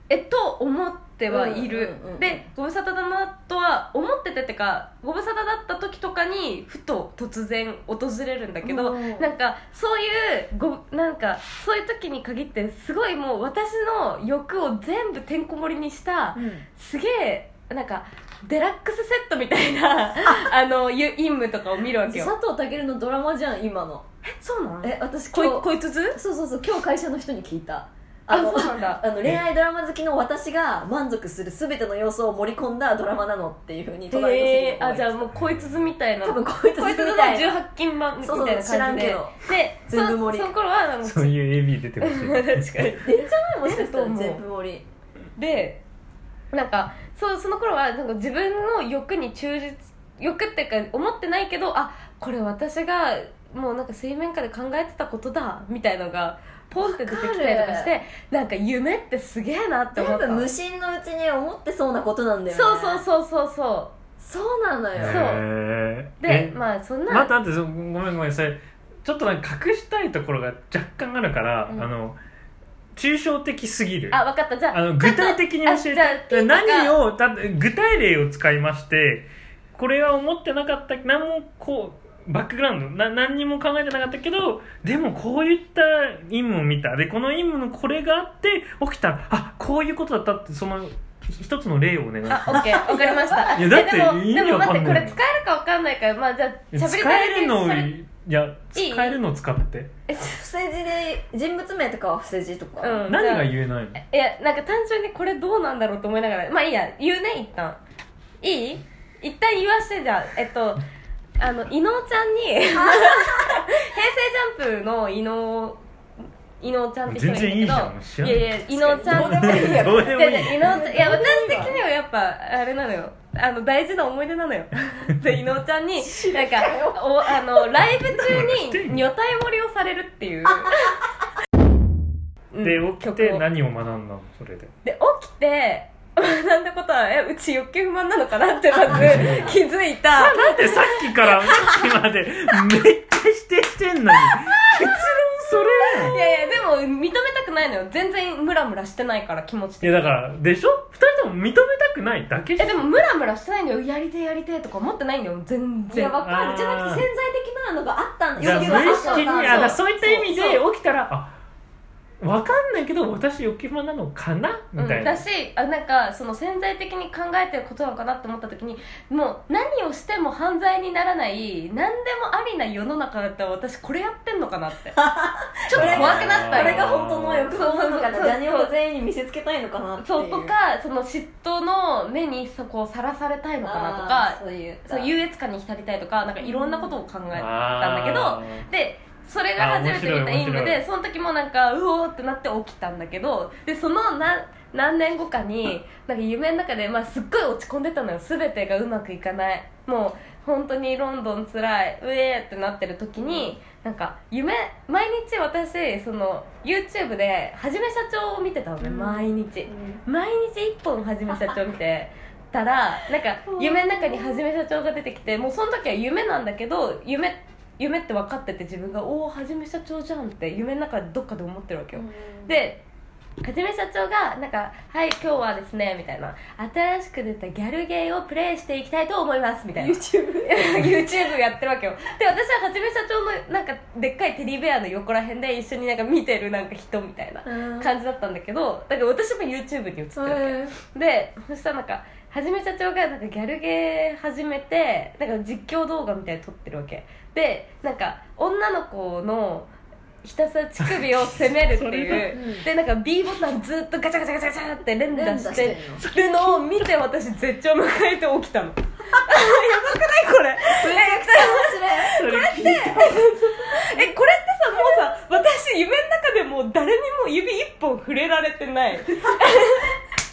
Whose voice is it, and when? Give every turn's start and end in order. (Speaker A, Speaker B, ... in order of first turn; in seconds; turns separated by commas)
Speaker A: 0.1-22.3, Speaker B: 1.3-2.4, Speaker B: 8.6-9.3, Speaker B: 16.4-16.6, Speaker B: 22.1-24.1, Speaker A: 24.3-26.2, Speaker B: 24.8-35.3, Speaker A: 28.3-29.0, Speaker A: 34.1-41.4, Speaker C: 35.4-35.7, Speaker B: 36.2-37.6, Speaker B: 38.2-40.5, Speaker C: 41.0-43.0, Speaker A: 42.0-44.4, Speaker B: 42.9-44.8, Speaker A: 45.4-45.8, Speaker A: 46.5-60.5, Speaker B: 56.8-57.9, Speaker B: 60.0-63.0, Speaker A: 62.5-63.9, Speaker B: 64.2-65.3, Speaker C: 65.0-66.6, Speaker A: 65.1-65.4, Speaker A: 66.2-67.3, Speaker C: 67.1-72.2, Speaker C: 73.0-92.8, Speaker A: 74.1-77.0, Speaker A: 92.3-97.9, Speaker B: 92.5-93.7, Speaker C: 93.5-95.2, Speaker C: 96.7-99.9, Speaker A: 98.7-99.2, Speaker A: 100.1-100.4, Speaker B: 100.3-103.0, Speaker A: 102.8-107.8, Speaker C: 103.1-104.0, Speaker A: 108.4-110.8, Speaker A: 111.4-115.8, Speaker B: 112.7-113.6, Speaker A: 116.6-131.0, Speaker C: 117.1-118.5, Speaker B: 118.7-121.8, Speaker C: 119.1-121.7, Speaker B: 126.0-127.7, Speaker C: 128.0-129.1, Speaker B: 130.5-131.1, Speaker A: 132.5-133.4, Speaker C: 132.6-134.7, Speaker A: 134.8-141.0, Speaker B: 138.9-139.4, Speaker C: 138.9-146.2, Speaker B: 145.8-146.3, Speaker A: 145.9-150.2, Speaker C: 149.8-152.9, Speaker A: 152.6-156.1, Speaker B: 155.9-160.3, Speaker C: 156.2-157.1, Speaker C: 158.4-161.4, Speaker A: 158.4-160.6, Speaker C: 162.2-165.2, Speaker A: 164.8-175.0, Speaker B: 174.9-180.5, Speaker A: 175.7-178.7, Speaker C: 175.7-177.5, Speaker A: 180.0-222.8, Speaker B: 183.6-185.1, Speaker B: 186.4-186.9, Speaker C: 187.3-188.7, Speaker C: 189.6-190.8, Speaker B: 203.2-203.5, Speaker B: 208.8-210.0, Speaker B: 211.3-211.6, Speaker B: 213.5-214.4, Speaker B: 221.9-222.6, Speaker A: 223.4-249.7, Speaker B: 229.8-231.0, Speaker B: 237.4-237.9, Speaker B: 240.1-240.8, Speaker A: 250.2-269.9, Speaker C: 250.8-252.3, Speaker B: 252.3-252.7, Speaker B: 255.1-256.0, Speaker B: 260.7-262.2, Speaker C: 262.2-263.3, Speaker B: 263.8-264.1